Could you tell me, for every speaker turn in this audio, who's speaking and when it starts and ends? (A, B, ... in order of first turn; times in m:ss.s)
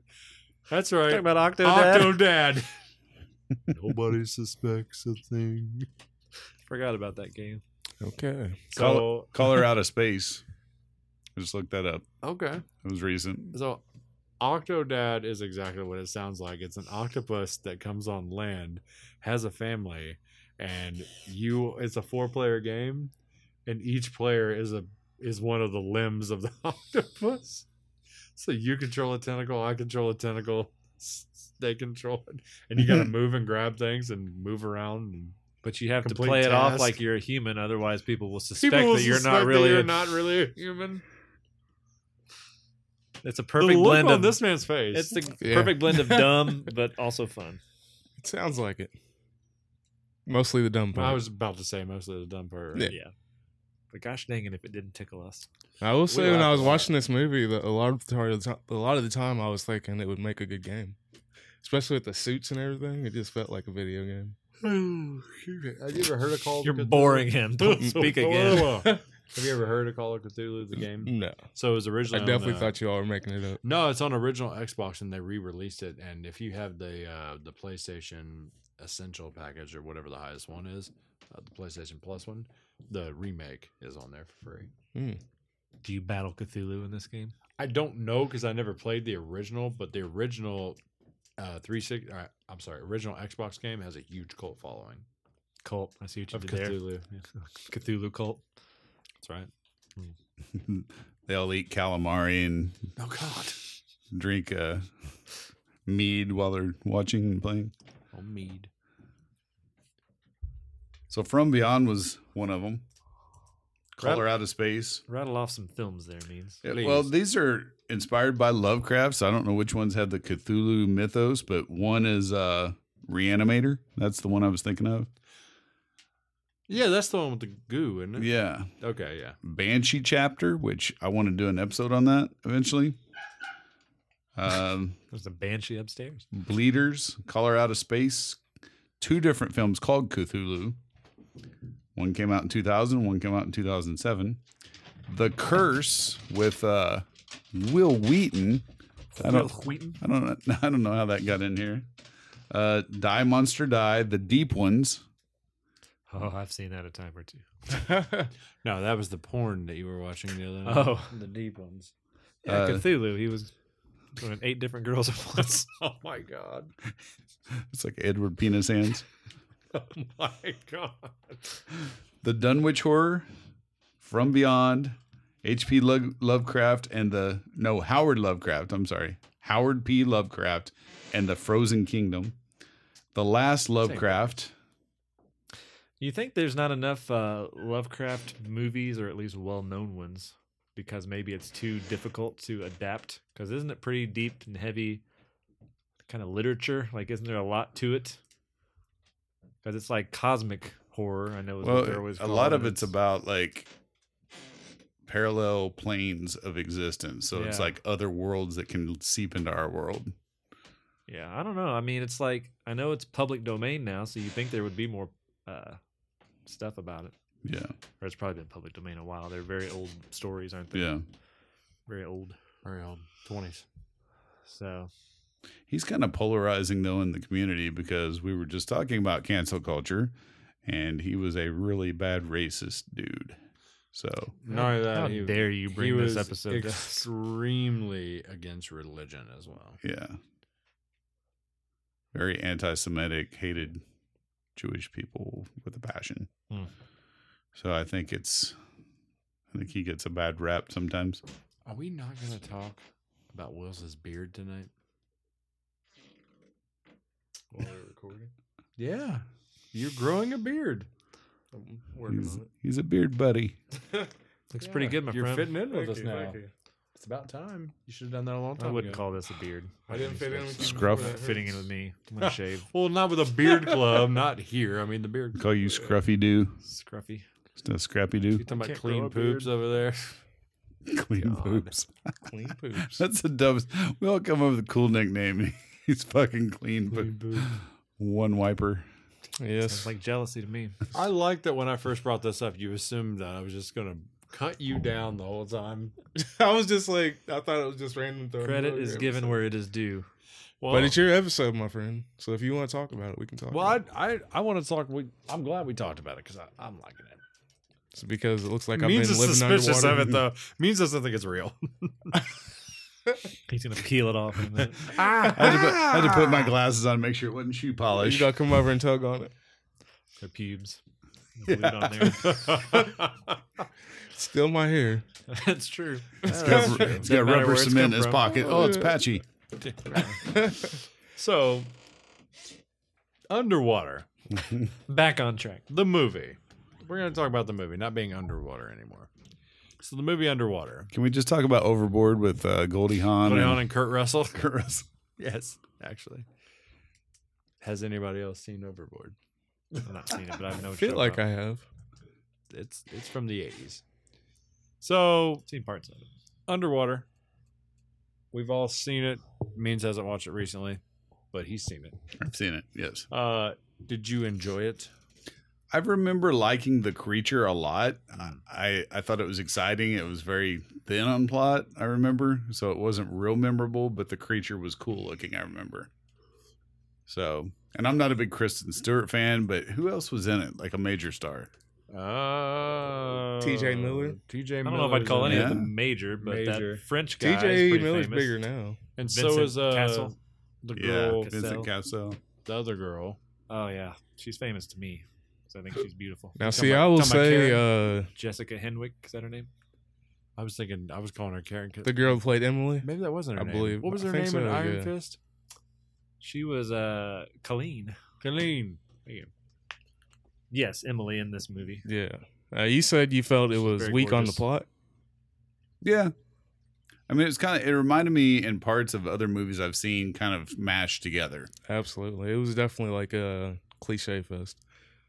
0:00.7-0:02.7 A
0:01.1-0:02.2 B
0:03.7-0:05.9 A
0:06.7-0:07.6 B
0:08.0-0:08.6 C
0:08.7-0:09.6 A
0:08.7-0:10.4 D
0:11.4-0:12.1 D
0:12.2-0:12.6 A
0:12.8-0:13.6 D
0:13.5-0:13.8 A
0:14.4-0:23.1 A
0:23.6-0:27.6 A
0:28.4-0:35.4 A
0:35.6-0:40.0 B
0:36.0-0:37.0 A
0:38.6-0:41.0 A
0:43.2-0:44.4 B
0:43.6-0:45.3 A
0:44.9-0:47.6 B
0:45.4-0:46.5 C
0:48.2-0:48.9 C
0:50.3-0:51.2 C
0:50.9-0:52.9 A
0:52.8-0:53.1 B
0:53.9-0:55.5 B
0:55.8-1:01.0 C
0:56.1-0:56.9 A
1:01.6-1:04.4 C
1:04.6-1:12.7 A
1:06.6-1:08.9 B
1:11.0-1:11.4 C
1:12.1-1:13.6 C
1:13.6-1:24.7 A
1:24.9-1:25.2 C
1:25.8-1:27.3 B
1:27.6-1:30.8 A
1:31.4-1:35.0 A
1:35.6-1:36.8 B
1:36.3-1:37.2 A
1:37.4-1:38.4 B
1:39.2-1:39.5 A
1:40.5-1:42.9 D
1:43.0-1:43.6 A
1:44.1-1:44.9 D
1:45.8-1:47.7 D
1:48.1-1:48.7 A
1:51.1-1:52.8 D
1:54.0-1:55.0 D
1:54.0-1:54.3 B
1:55.1-1:56.6 B
1:56.6-2:05.1 D
1:56.7-1:57.1 A
2:06.7-2:08.3 A
2:08.2-2:08.7 D
2:08.8-2:09.4 A
2:09.4-2:13.0 D
2:14.4-2:15.0 D
2:15.1-2:16.2 B
2:16.3-2:18.4 D
2:19.0-2:20.8 D
2:22.0-2:24.4 D
2:25.1-2:28.6 D
2:29.2-2:30.0 B
2:29.2-2:31.9 D
2:32.5-2:35.0 D
2:36.1-2:37.4 B
2:37.7-2:38.3 C
2:38.6-2:41.9 A
2:40.6-2:41.1 B
2:42.4-2:43.5 B
2:42.4-2:42.8 D
2:44.2-2:45.7 B
2:45.6-2:46.7 A
2:47.7-2:49.0 D
2:49.7-2:51.6 A
2:52.2-2:53.3 D
2:54.0-3:02.4 D
3:03.1-3:04.5 D
3:03.8-3:04.3 A
3:06.0-3:15.0 B
3:16.1-3:18.2 B
3:19.6-3:22.9 B
3:21.6-3:23.7 D
3:25.0-3:30.1 D
3:27.3-3:27.7 B
3:31.1-3:35.8 B
3:36.4-3:37.1 B
3:37.4-3:37.7 D
3:38.0-3:40.9 B
3:40.7-3:41.0 D
3:41.9-3:42.4 B
3:42.6-3:43.6 A
3:44.4-3:44.9 B
3:45.7-3:53.4 D
3:53.9-3:54.4 D
3:54.4-3:59.8 A
3:54.5-3:57.1 B
3:59.8-4:00.2 D
4:02.1-4:03.8 D
4:04.6-4:06.3 D
4:07.6-4:08.6 D
4:09.5-4:11.2 D
4:11.6-4:12.8 A
4:13.3-4:14.7 A
4:17.5-4:18.3 C
4:18.8-4:20.9 A
4:21.5-4:22.5 C
4:22.1-4:23.6 D
4:24.5-4:25.6 B
4:24.6-4:26.4 A
4:25.7-4:26.5 C
4:26.9-4:29.0 A
4:28.6-4:32.7 B
4:29.9-4:31.6 C
4:30.6-4:31.2 D
4:32.2-4:35.5 A
4:35.4-4:36.6 D
4:36.6-4:37.2 B
4:37.6-4:38.4 D
4:38.4-4:40.1 A
4:38.6-4:39.0 B
4:38.6-4:39.4 C
4:40.9-4:42.3 D
4:41.2-4:41.7 A
4:42.2-4:43.0 C
4:42.8-4:48.9 D
4:46.9-4:47.5 A
4:49.4-4:49.9 C
4:49.7-4:50.8 B
4:50.9-4:55.9 A
4:56.1-4:59.4 C
4:58.4-5:00.1 B
5:00.6-5:01.0 A
5:00.7-5:03.8 C
5:03.5-5:07.2 A
5:07.9-5:10.2 C
5:08.7-5:12.3 A
5:13.5-5:15.0 B
5:14.8-5:16.5 A
5:15.3-5:18.3 D
5:18.0-5:19.3 C
5:20.2-5:20.8 B
5:21.4-5:22.8 B
5:22.2-5:23.2 A
5:24.1-5:25.0 C
5:25.3-5:28.3 B
5:26.3-5:26.6 C
5:26.3-5:27.0 A
5:26.3-5:29.2 D
5:28.4-5:29.0 C
5:29.6-5:31.7 A
5:33.3-5:34.1 A
5:34.9-5:35.6 B
5:35.7-5:39.1 A
5:39.8-5:40.9 A
5:40.9-5:43.7 D
5:43.2-5:44.4 A
5:44.3-5:44.8 D
5:45.2-5:46.2 A
5:47.6-5:49.2 A
5:49.8-5:51.2 B
5:50.7-5:51.6 C
5:52.5-5:53.8 A
5:54.8-5:55.4 A
5:55.5-5:56.1 B
5:56.5-5:57.0 A
5:58.3-6:00.8 A
6:01.3-6:01.9 A
6:02.2-6:03.1 D
6:03.1-6:04.9 A
6:05.7-6:15.9 D
6:17.1-6:21.5 D
6:21.9-6:26.8 A
6:23.4-6:24.2 C
6:24.6-6:28.3 B
6:25.2-6:25.7 D
6:27.2-6:28.8 C
6:29.0-6:31.3 A
6:29.0-6:30.1 B
6:30.7-6:32.2 D
6:31.1-6:31.7 B
6:32.4-6:33.2 A
6:33.5-6:36.4 B
6:36.4-6:38.1 C
6:36.4-6:37.6 A
6:38.1-6:39.5 B
6:40.4-6:42.2 A
6:41.8-6:44.9 C
6:42.8-6:45.2 A
6:46.2-6:48.0 B
6:48.2-6:49.3 A
6:50.5-6:51.8 B
6:51.8-6:54.7 C
6:53.6-6:54.4 B
6:55.8-6:56.1 D
6:57.1-7:01.5 D
7:01.7-7:04.6 C